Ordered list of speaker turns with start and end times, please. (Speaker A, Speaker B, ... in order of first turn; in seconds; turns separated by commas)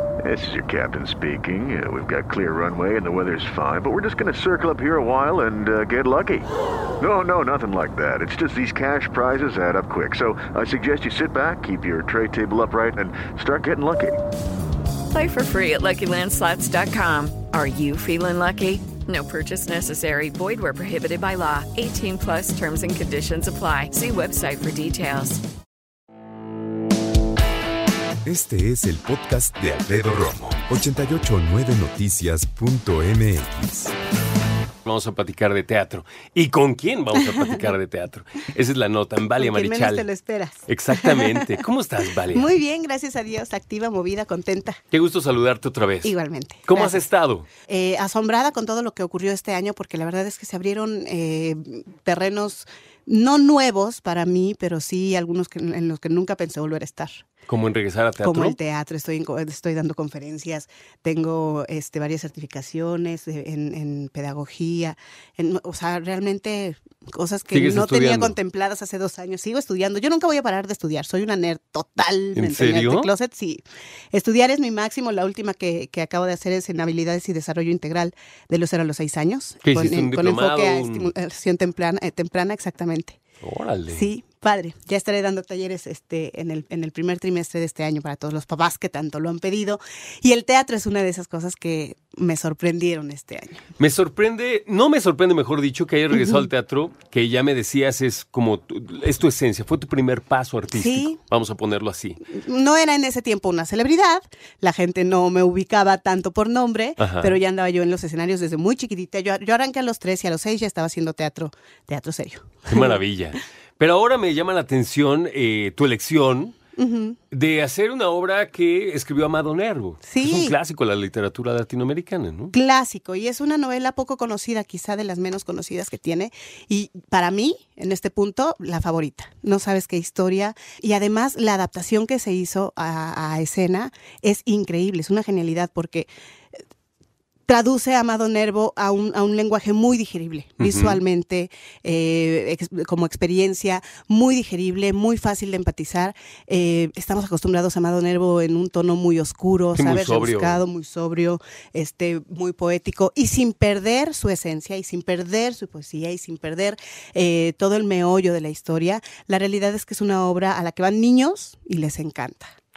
Speaker A: 0.2-6.5, Speaker A: 7.0-14.2, Speaker B: 15.1-25.4, Speaker C: 28.2-33.9, Speaker D: 34.8-40.1, Speaker E: 37.2-37.6, Speaker E: 39.4-41.5, Speaker D: 40.7-42.5, Speaker E: 42.3-44.8, Speaker D: 44.9-47.5, Speaker E: 46.0-47.0, Speaker E: 47.6-57.3, Speaker D: 57.5-58.6, Speaker E: 58.2-83.2, Speaker D: 67.5-68.3, Speaker D: 72.3-73.1, Speaker D: 79.6-81.1, Speaker D: 83.4-84.1, Speaker E: 83.9-93.6, Speaker D: 93.8-102.2, Speaker E: 96.1-96.5, Speaker E: 100.7-101.2, Speaker E: 102.3-113.0, Speaker D: 107.0-107.4, Speaker D: 112.7-116.5, Speaker E: 116.8-117.2, Speaker D: 117.3-122.5, Speaker E: 120.0-120.6, Speaker E: 122.5-136.1, Speaker E: 137.5-162.6, Speaker D: 140.6-141.0, Speaker D: 149.7-150.6